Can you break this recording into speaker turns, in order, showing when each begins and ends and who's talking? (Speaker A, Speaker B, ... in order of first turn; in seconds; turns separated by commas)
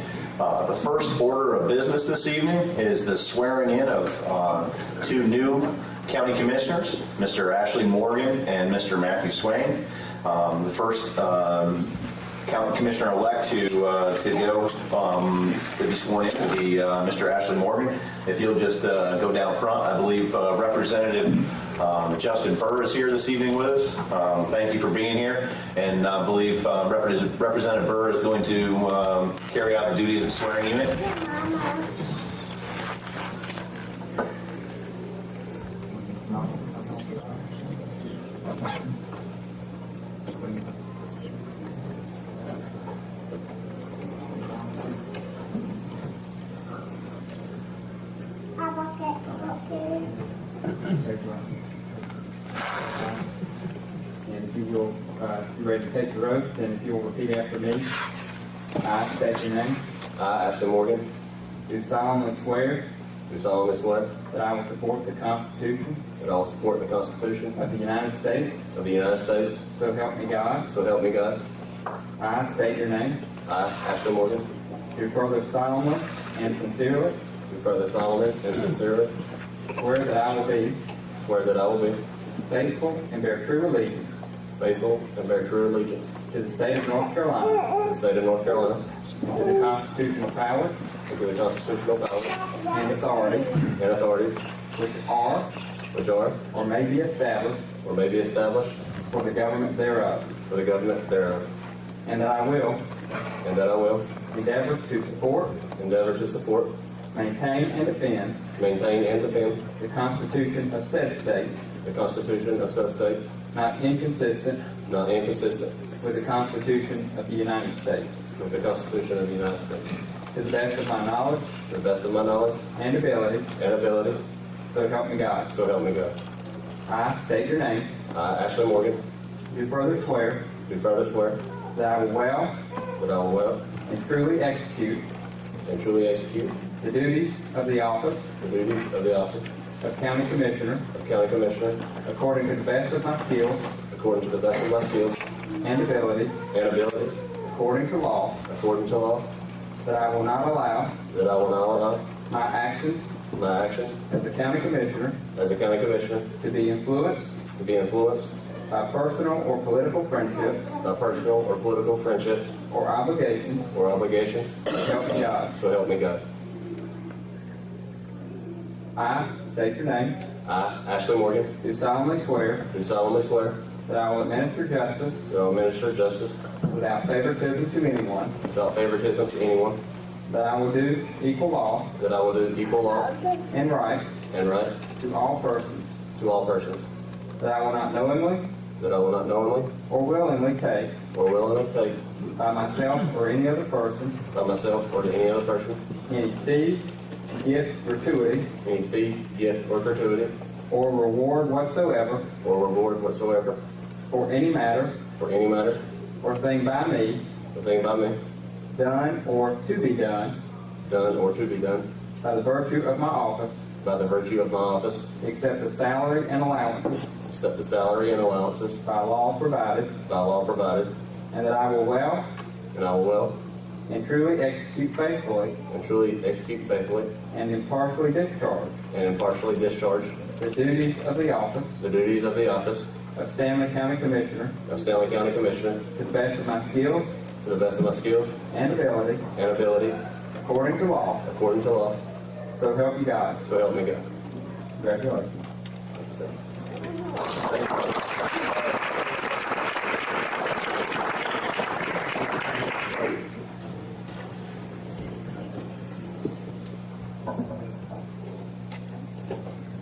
Speaker A: 0.4-31.1, Speaker B: 31.2-31.8, Speaker B: 48.6-50.0, Speaker C: 50.9-51.5, Speaker C: 54.2-57.9, Speaker C: 58.8-59.8, Speaker D: 60.1-61.1, Speaker C: 61.7-62.8, Speaker D: 63.3-64.1, Speaker C: 64.3-66.0, Speaker D: 66.2-67.5, Speaker C: 67.5-68.6, Speaker D: 68.7-69.6, Speaker C: 69.7-70.7, Speaker D: 70.7-71.4, Speaker C: 72.2-73.2, Speaker D: 73.5-74.5, Speaker C: 74.9-77.2, Speaker D: 77.5-79.1, Speaker C: 79.8-80.8, Speaker D: 81.1-82.0, Speaker C: 82.5-84.2, Speaker D: 84.6-86.1, Speaker C: 86.3-87.7, Speaker D: 87.8-88.8, Speaker C: 89.2-90.8, Speaker D: 91.1-92.5, Speaker C: 92.7-93.7, Speaker D: 93.8-94.4, Speaker C: 94.8-95.5, Speaker D: 95.9-96.4, Speaker C: 96.5-97.7, Speaker D: 97.8-98.8, Speaker C: 99.1-100.3, Speaker D: 100.5-101.5, Speaker C: 102.0-102.8, Speaker D: 103.4-104.1, Speaker C: 104.3-105.6, Speaker D: 105.8-106.7, Speaker C: 107.1-108.4, Speaker D: 108.5-109.6, Speaker C: 109.8-111.5, Speaker D: 111.8-113.2, Speaker C: 113.5-114.6, Speaker D: 114.8-115.7, Speaker C: 116.0-118.2, Speaker D: 118.4-119.9, Speaker C: 120.3-121.5, Speaker D: 121.7-122.6, Speaker C: 122.7-123.5, Speaker D: 123.5-124.2, Speaker C: 124.7-125.5, Speaker D: 125.5-126.2, Speaker C: 126.9-127.9, Speaker D: 128.1-129.0, Speaker C: 129.5-130.4, Speaker D: 130.7-131.4, Speaker C: 131.7-132.5, Speaker D: 133.0-133.6, Speaker C: 133.9-135.0, Speaker D: 135.7-136.6, Speaker C: 136.8-138.3, Speaker D: 138.4-139.5, Speaker C: 139.8-140.8, Speaker D: 140.9-141.8, Speaker C: 142.0-143.7, Speaker D: 143.9-145.2, Speaker C: 145.6-146.4, Speaker D: 146.5-147.2, Speaker C: 147.4-148.4, Speaker D: 148.4-149.3, Speaker C: 149.8-150.9, Speaker D: 151.1-152.0, Speaker C: 152.3-153.1, Speaker D: 153.3-154.0, Speaker C: 154.1-155.2, Speaker D: 155.3-156.3, Speaker C: 156.4-157.3, Speaker D: 157.6-158.3, Speaker C: 158.7-160.7, Speaker D: 160.8-162.5, Speaker C: 162.7-163.7, Speaker D: 163.7-164.6, Speaker C: 164.7-165.5, Speaker D: 165.5-166.2, Speaker C: 168.9-170.2, Speaker D: 170.4-171.5, Speaker C: 171.6-172.7, Speaker D: 172.7-173.6, Speaker C: 173.8-175.3, Speaker D: 175.3-176.4, Speaker C: 176.7-178.3, Speaker D: 178.5-179.8, Speaker C: 180.3-181.9, Speaker D: 182.0-183.2, Speaker C: 183.5-184.1, Speaker D: 184.3-184.7, Speaker C: 185.0-185.9, Speaker D: 186.1-186.8, Speaker C: 187.4-188.5, Speaker D: 188.8-189.7, Speaker C: 189.9-190.9, Speaker D: 191.1-192.0, Speaker C: 192.3-194.2, Speaker D: 194.3-195.8, Speaker C: 196.1-198.5, Speaker D: 198.6-200.3, Speaker C: 200.7-202.2, Speaker D: 202.4-203.6, Speaker C: 204.1-204.9, Speaker D: 205.2-205.8, Speaker C: 206.2-207.2, Speaker D: 207.5-208.2, Speaker C: 208.7-210.4, Speaker D: 210.9-211.9, Speaker C: 212.2-213.6, Speaker D: 213.8-215.0, Speaker C: 215.2-217.1, Speaker D: 217.3-218.8, Speaker C: 218.8-219.9, Speaker D: 220.1-220.9, Speaker C: 221.3-222.2, Speaker D: 222.7-223.4, Speaker C: 223.9-225.6, Speaker D: 225.7-227.1, Speaker C: 227.3-228.8, Speaker D: 228.9-230.2, Speaker C: 230.4-231.8, Speaker D: 231.8-232.8, Speaker C: 233.1-234.5, Speaker D: 234.7-235.8, Speaker C: 235.9-237.2, Speaker D: 237.4-238.3, Speaker C: 238.5-239.2, Speaker D: 239.3-240.0, Speaker C: 240.4-241.2, Speaker D: 241.2-242.0, Speaker C: 242.5-243.4, Speaker D: 243.4-244.1, Speaker C: 244.8-245.4, Speaker D: 245.9-246.3